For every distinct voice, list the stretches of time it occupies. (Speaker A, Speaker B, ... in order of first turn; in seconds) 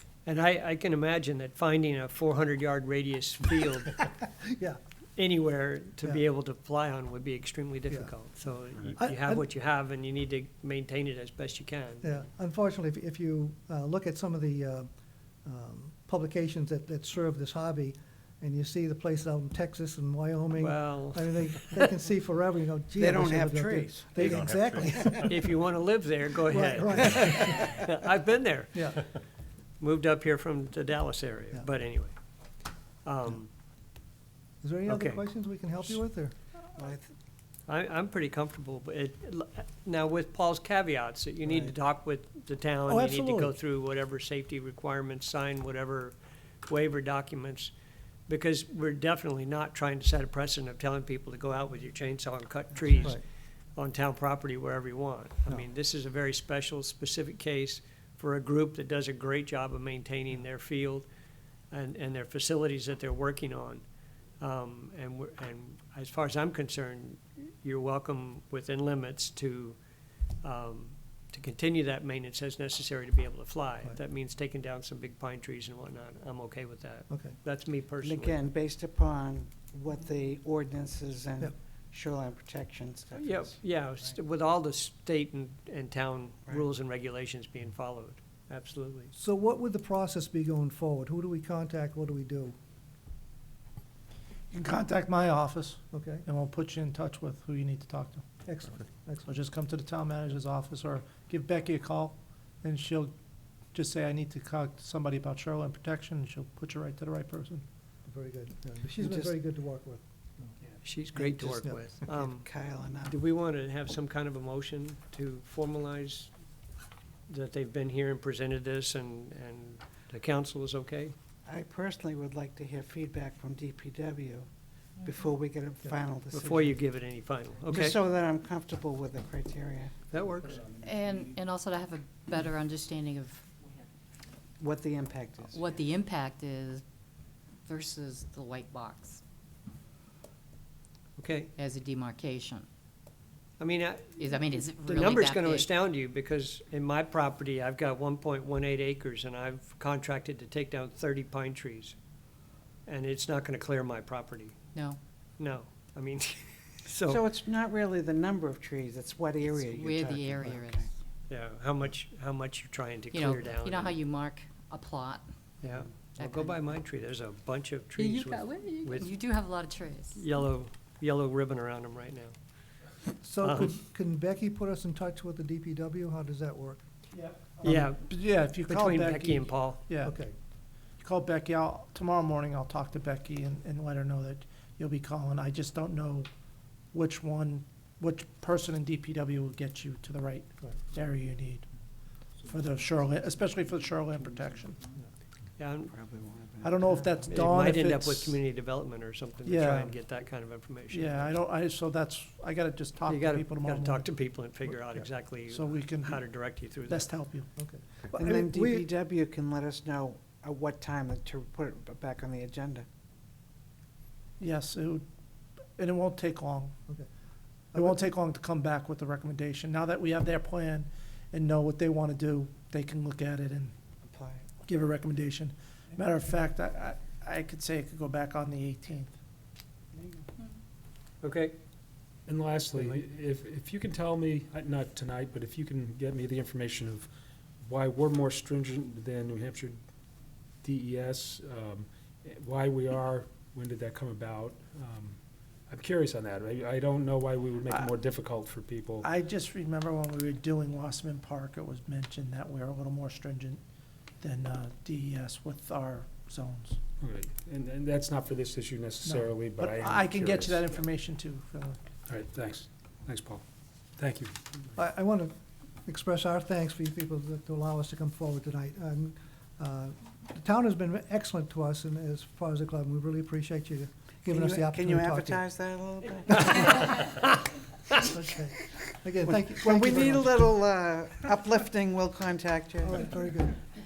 Speaker A: 0.2-4.0, 5.2-12.1, 20.6-21.4, 25.2-29.2, 29.8-32.2, 33.0-33.5, 34.9-35.2, 37.7-46.1, 46.7-47.7, 48.3-53.2, 53.8-61.1, 61.7-63.8, 64.4-69.8, 70.4-78.4, 83.1-89.1, 110.8-116.3, 117.3-121.2, 126.3-128.0, 130.1-130.7, 141.2-141.5, 143.6-152.0, 152.9-154.6, 155.4-157.2, 161.3-164.0, 165.6-169.2, 170.1-172.4, 173.4-173.8, 177.6-179.8, 195.6-195.9, 197.3-201.3, 203.1-207.1, 231.2-231.6, 276.6-277.2
Speaker B: 4.4-4.8, 7.9-8.2, 9.0-9.5, 12.0-25.6, 26.5-27.8, 28.7-29.0, 34.6-36.3, 42.9-43.5, 77.1-77.4, 89.2-92.5, 95.9-96.3, 98.5-99.3, 108.1-110.5, 173.2-176.8, 180.0-180.3, 207.6-208.9, 264.8-275.4, 276.3-276.6, 278.0-280.4, 282.8-283.6
Speaker C: 22.9-25.3, 36.8-37.1, 78.0-83.6, 109.0-109.3, 111.2-113.2, 121.5-124.5, 125.0-126.8, 127.7-129.9, 134.6-135.7, 157.1-160.9, 195.9-197.2, 208.1-212.9, 224.0-224.5, 230.0-230.3, 274.3-276.9, 279.2-283.0
Speaker D: 94.5-98.2, 99.3-103.1, 103.7-107.6, 177.1-180.1, 181.0-186.3, 186.9-191.7, 192.4-194.9, 196.6-198.4, 199.4-200.0, 200.9-207.5, 214.4-215.1, 215.8-216.8, 217.8-223.8, 224.6-229.1, 247.7-247.9, 249.0-253.6, 254.2-256.8, 259.0-261.8
Speaker E: 130.8-133.4, 135.5-136.8, 137.7-139.2, 141.6-142.7, 144.2-145.7, 154.7-155.0, 159.6-160.9, 163.1-165.2, 166.2-166.6, 168.0-170.2
Speaker F: 232.3-237.1, 237.6-239.8, 240.6-249.1, 257.0-260.8, 262.1-263.4, 264.0-264.3